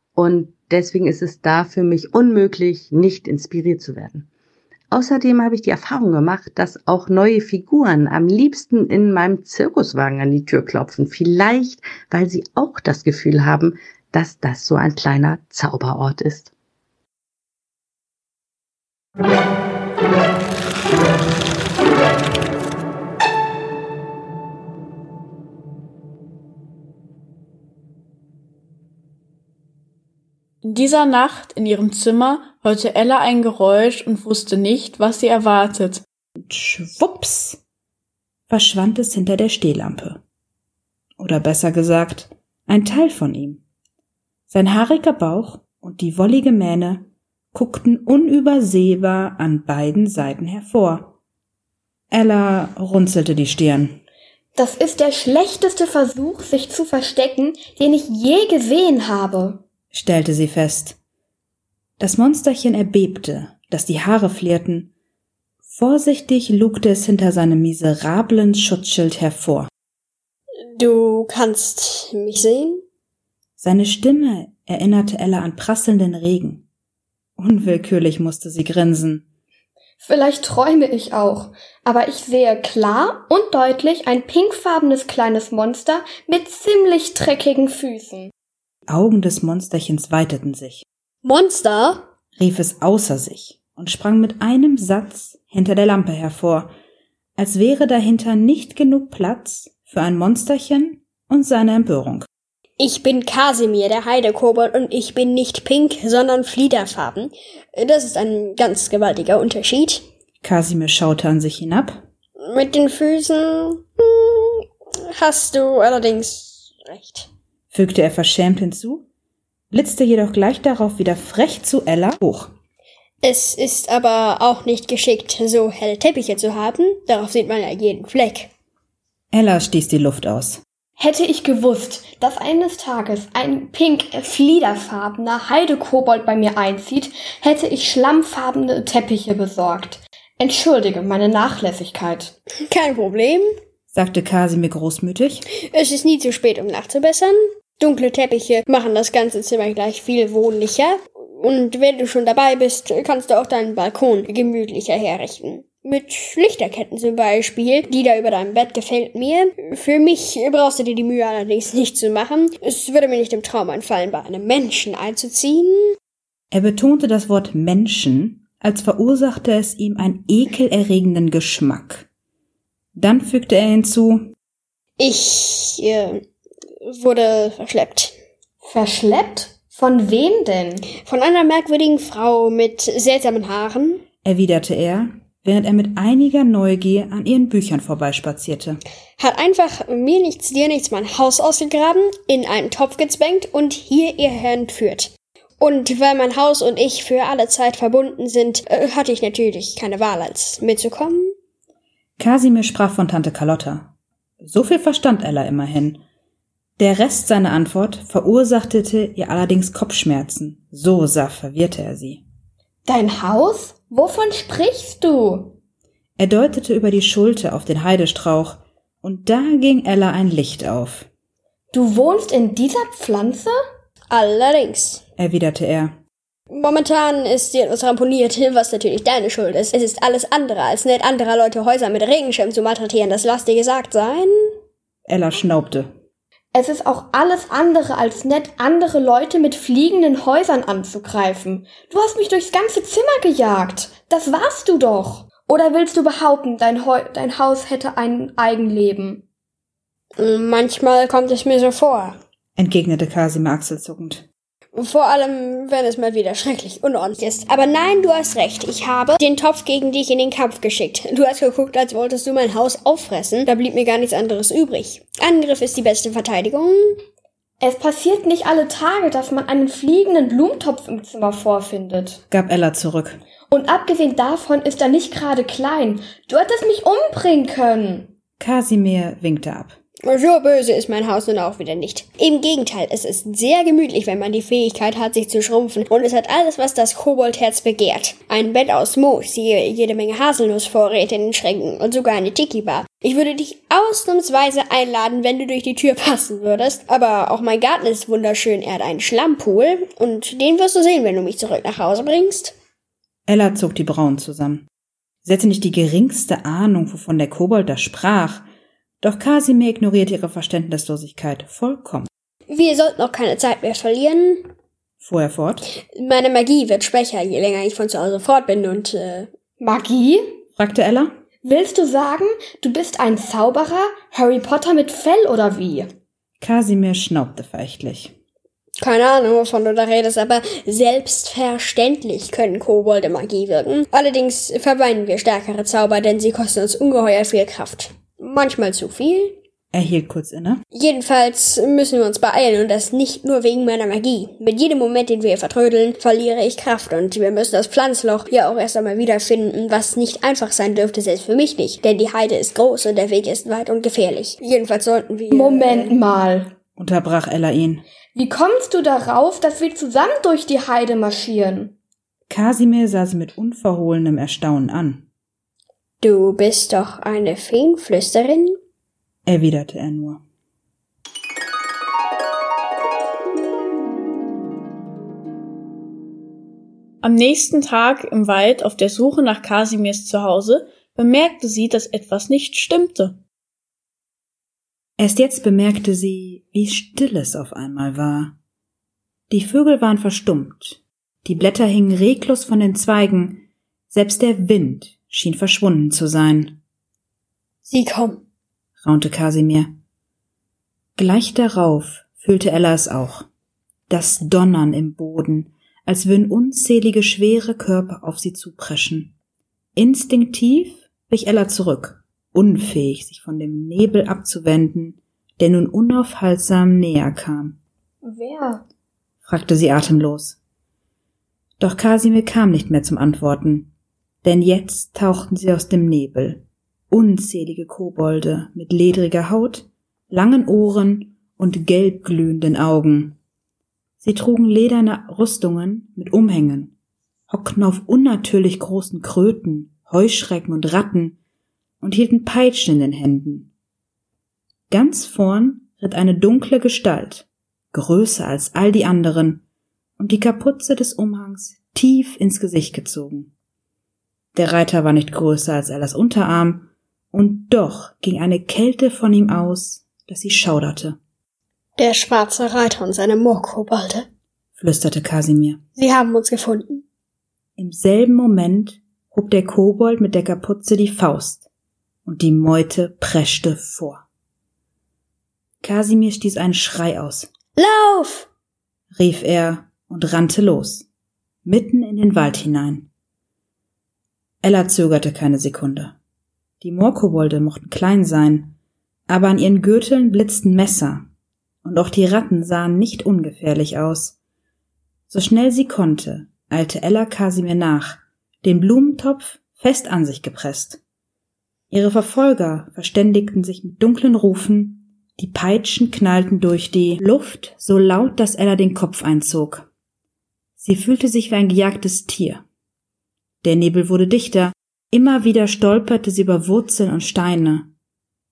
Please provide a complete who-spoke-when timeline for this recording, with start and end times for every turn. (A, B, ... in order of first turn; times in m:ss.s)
0:00.2-0:04.3 A
0:04.9-0:16.5 A
0:30.6-0:36.0 B
0:36.4-0:37.6 C
0:38.5-0:40.2 C
0:41.2-0:43.6 C
0:44.5-0:51.2 C
0:52.1-0:54.0 C
0:54.6-0:59.6 D
0:59.9-1:01.0 C
1:02.0-1:04.9 C
1:05.7-1:09.7 C
1:10.7-1:12.8 E
1:13.6-1:16.7 C
1:17.4-1:19.2 C
1:20.0-1:28.3 D
1:28.9-1:30.8 C
1:31.2-1:32.1 E
1:32.4-1:36.7 C
1:37.4-1:42.3 C
1:42.8-1:50.0 E
1:50.4-1:52.0 C
1:52.4-1:57.3 E
1:57.7-1:59.1 C
1:59.7-2:02.5 C
2:03.2-2:08.5 E
2:09.3-2:10.6 C
2:11.0-2:22.4 D
2:22.6-2:23.5 E
2:23.9-2:25.4 C
2:25.5-2:46.0 E
2:46.5-2:52.1 C
2:53.0-2:54.3 C
2:55.0-2:56.2 E
2:56.8-2:58.2 E
2:58.6-3:00.8 D
3:01.0-3:04.0 E
3:04.2-3:08.8 C
3:09.2-3:21.4 E
3:22.2-3:26.0 C
3:26.8-3:32.2 C
3:32.8-3:35.6 D
3:36.2-3:41.1 C
3:41.7-3:43.6 D
3:44.1-3:45.0 E
3:45.2-3:45.9 C
3:46.5-3:54.5 E
3:55.1-3:55.9 C
3:56.5-4:09.2 D
4:10.2-4:12.2 E
4:12.6-4:14.3 C
4:14.7-4:27.0 E
4:27.6-4:32.2 D
4:32.3-4:33.2 C
4:33.5-4:38.1 D
4:38.4-4:39.8 C
4:40.0-5:02.6 E
5:03.3-5:04.7 C
5:05.2-5:08.5 C
5:09.0-5:12.1 C
5:12.5-5:14.5 E
5:15.0-5:15.7 C
5:15.9-5:19.3 E
5:19.6-5:20.2 D
5:20.6-5:21.1 C
5:21.4-5:25.9 D
5:26.4-5:28.2 C
5:28.8-5:39.4 E
5:39.7-5:40.6 C
5:40.7-5:55.9 E
5:55.3-5:56.5 D
5:56.8-5:57.8 C
5:58.1-6:01.8 D
6:02.3-6:05.1 C
6:06.0-6:08.6 E
6:09.3-6:10.2 C
6:17.0-6:23.2 B
6:25.0-6:28.4 C
6:29.3-6:36.6 C
6:37.6-6:38.2 E
6:38.8-6:39.7 C
6:41.0-6:43.3 C
6:43.9-6:49.2 C
6:49.8-6:57.6 C
6:58.0-6:58.6 D
6:59.2-7:00.4 C
7:01.6-7:03.7 C
7:04.2-7:13.2 C
7:14.0-7:16.8 C
7:17.3-7:21.2 C
7:21.8-7:23.5 C
7:24.7-7:29.4 C
7:30.0-7:33.3 C
7:34.4-7:41.0 C
7:41.8-7:44.1 E
7:44.6-7:45.6 C
7:45.8-7:46.8 E
7:47.6-7:51.5 C
7:52.0-7:54.0 C
7:55.6-7:57.3 C
7:57.6-7:58.3 E
7:58.9-8:00.9 C
8:01.4-8:02.9 C
8:04.4-8:06.0 C
8:06.6-8:08.6 C
8:09.1-8:11.1 C
8:11.6-8:14.2 C
8:15.1-8:20.8 C
8:21.7-8:29.7 C
8:30.6-8:32.4 C
8:33.4-8:37.7 C